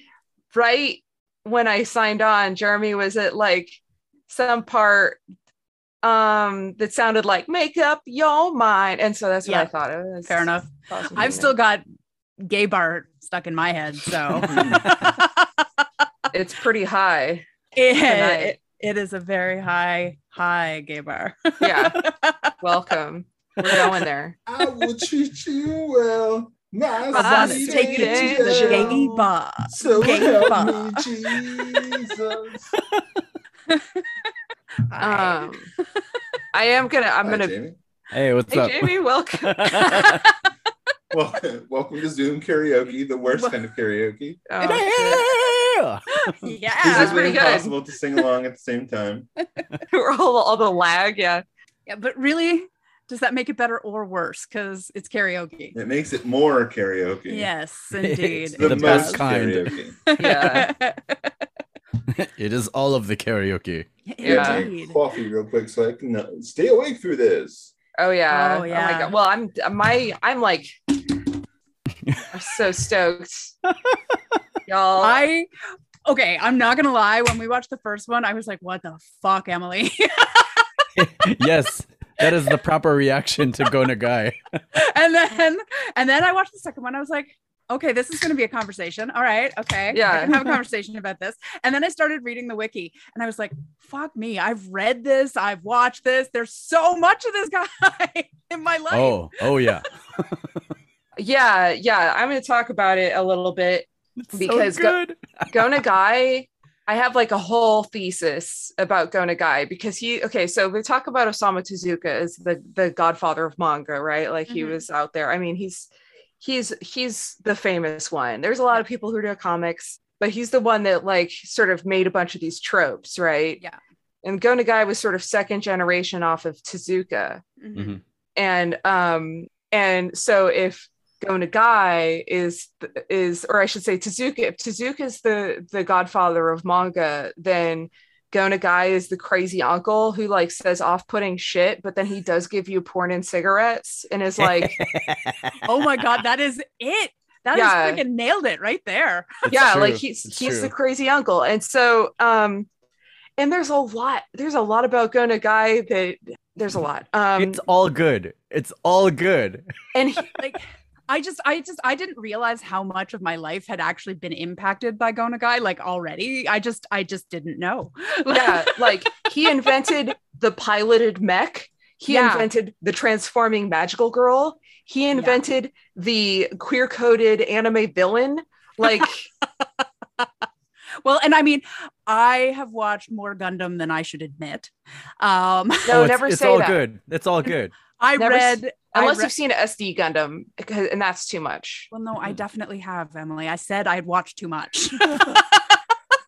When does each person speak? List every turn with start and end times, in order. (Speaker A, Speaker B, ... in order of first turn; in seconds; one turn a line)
Speaker A: 0.5-3.8
Speaker A: 4.3-5.2
Speaker A: 6.0-11.6
Speaker B: 9.4-9.7
Speaker B: 10.2-11.8
Speaker B: 12.4-15.8
Speaker C: 14.4-14.9
Speaker A: 16.3-17.4
Speaker B: 17.8-22.5
Speaker A: 18.0-18.6
Speaker A: 21.6-22.0
Speaker A: 22.6-24.3
Speaker B: 23.6-24.1
Speaker D: 24.4-32.7
Speaker B: 24.6-24.9
Speaker B: 27.1-32.1
Speaker A: 27.1-29.1
Speaker B: 33.7-34.0
Speaker B: 34.9-35.5
Speaker A: 35.0-35.7
Speaker A: 36.5-37.5
Speaker D: 37.2-37.8
Speaker C: 38.1-40.2
Speaker A: 38.5-40.0
Speaker B: 39.9-40.2
Speaker D: 41.1-44.5
Speaker B: 43.3-43.6
Speaker A: 44.5-45.2
Speaker B: 44.6-45.6
Speaker C: 44.6-46.4
Speaker B: 46.3-47.7
Speaker D: 46.8-49.3
Speaker A: 46.8-47.7
Speaker A: 49.9-51.4
Speaker B: 51.9-55.7
Speaker D: 55.7-57.5
Speaker B: 57.3-59.2
Speaker C: 58.0-59.7
Speaker D: 58.5-60.0
Speaker B: 60.1-61.3
Speaker A: 60.2-60.7
Speaker C: 62.1-63.9
Speaker B: 64.1-65.0
Speaker A: 64.2-64.6
Speaker D: 64.2-67.7
Speaker A: 68.0-71.0
Speaker B: 68.3-69.1
Speaker C: 72.0-72.3
Speaker A: 72.3-73.5
Speaker C: 73.7-74.2
Speaker A: 74.7-75.2
Speaker B: 75.0-75.5
Speaker B: 76.0-80.8
Speaker C: 81.0-84.4
Speaker B: 84.7-99.7
Speaker A: 89.9-90.6
Speaker C: 98.9-100.4
Speaker A: 101.2-105.0
Speaker C: 104.2-105.6
Speaker A: 105.5-115.9
Speaker B: 114.5-114.8
Speaker A: 116.4-123.6
Speaker A: 124.2-127.4
Speaker B: 127.6-128.0
Speaker C: 127.7-128.0
Speaker A: 128.3-144.8
Speaker C: 144.4-145.6
Speaker B: 145.6-149.5
Speaker A: 147.5-148.0
Speaker C: 149.4-150.7
Speaker A: 149.5-152.7
Speaker A: 153.4-157.6
Speaker C: 157.4-159.7
Speaker A: 159.9-160.4
Speaker B: 160.4-169.0
Speaker A: 168.3-179.3
Speaker B: 172.1-172.5
Speaker B: 175.1-175.4
Speaker B: 178.8-179.1
Speaker B: 179.6-180.3
Speaker B: 181.0-186.0
Speaker A: 185.8-186.8
Speaker C: 185.9-187.7
Speaker B: 187.4-189.3
Speaker A: 188.2-191.9
Speaker B: 191.9-195.8